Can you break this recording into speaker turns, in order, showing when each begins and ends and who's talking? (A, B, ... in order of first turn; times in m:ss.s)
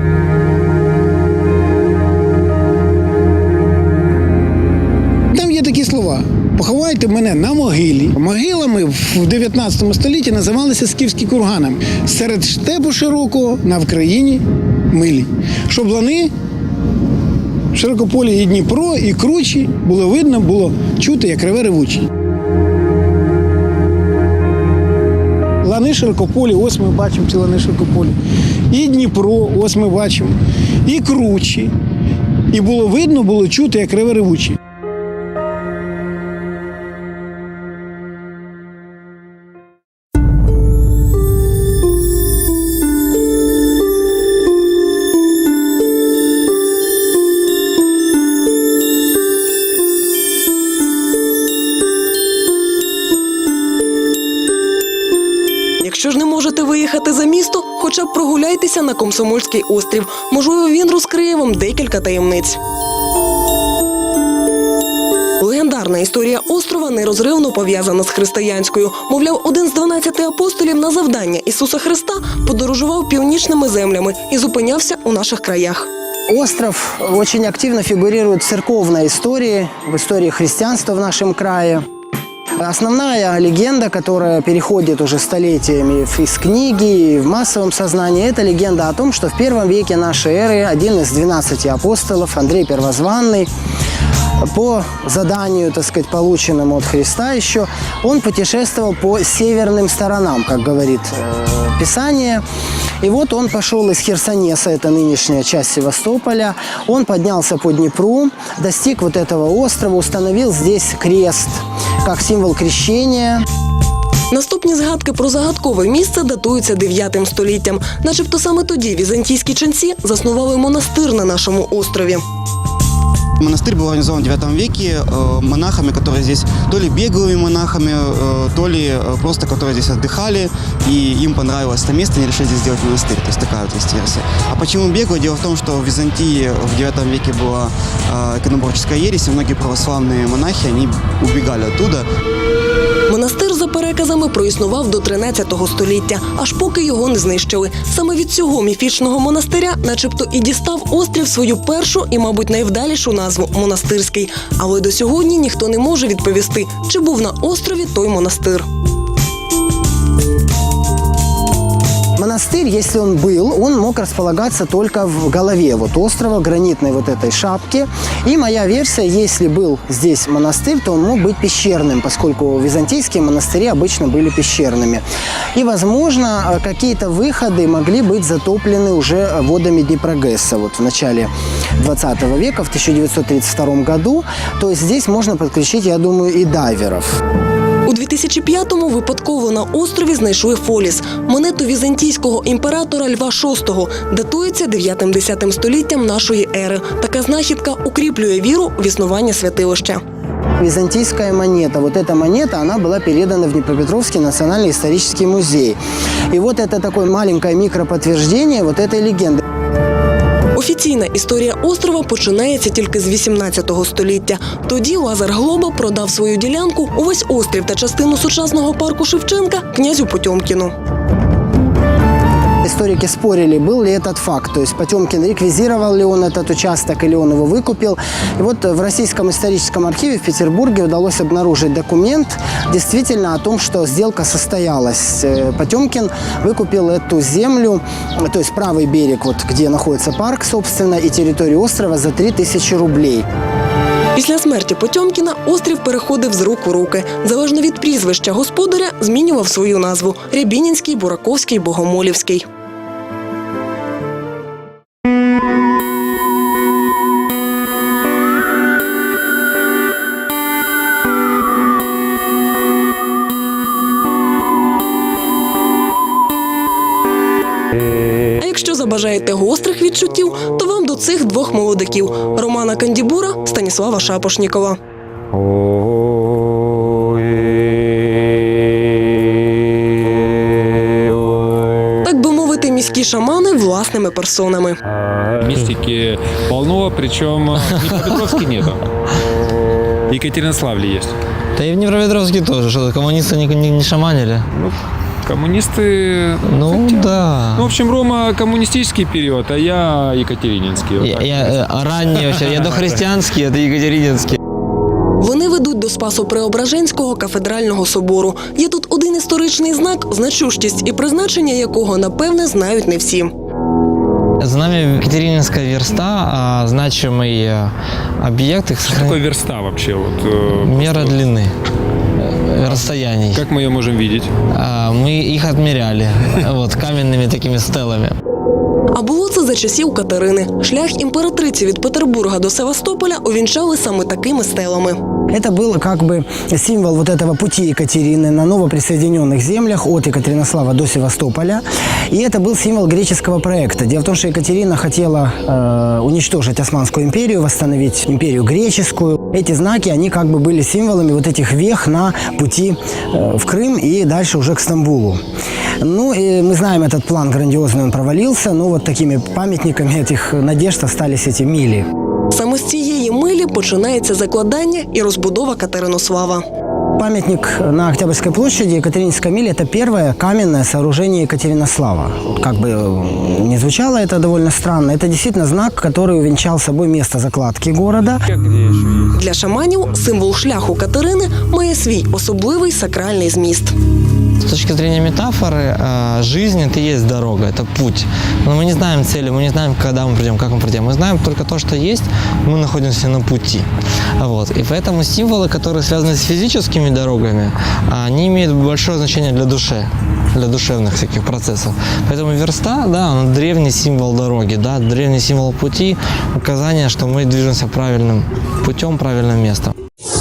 0:05.3-0:16.3 A
0:17.7-0:22.0 A
0:25.6-0:28.2 A
0:28.7-0:31.7 A
0:32.5-0:34.6 A
0:55.8-1:02.6 B
1:05.4-1:15.9 B
1:16.3-1:21.8 C
1:22.6-1:33.5 C
1:34.5-1:42.4 C
1:43.0-1:53.4 C
1:54.3-2:02.2 B
2:03.4-2:22.1 D
2:23.1-2:38.6 B
2:42.2-2:55.0 C
2:55.6-3:07.2 C
3:07.9-3:20.0 B
3:20.6-3:25.8 C
3:26.3-3:29.4 C
3:30.6-3:40.7 B
3:42.6-4:03.3 C
4:04.2-4:12.4 B
4:28.4-4:34.8 B
4:42.0-4:44.8 B
4:45.4-4:48.8 E
4:50.1-4:51.2 E
4:51.6-4:54.5 F
4:54.5-5:02.9 E
4:56.4-4:57.7 F
5:01.0-5:04.4 F
5:05.2-5:13.3 B
5:14.4-5:19.2 F
5:18.8-5:21.2 E
5:20.6-5:21.5 F
5:22.2-5:23.5 F
5:22.7-5:24.3 E
5:24.5-5:28.2 F
5:28.9-5:35.0 B
5:35.3-5:55.2 C
5:55.8-6:01.9 C
6:02.3-6:06.4 B
6:07.0-6:18.2 C
6:19.1-6:23.7 B
6:24.5-6:33.7 F
6:34.2-6:49.7 F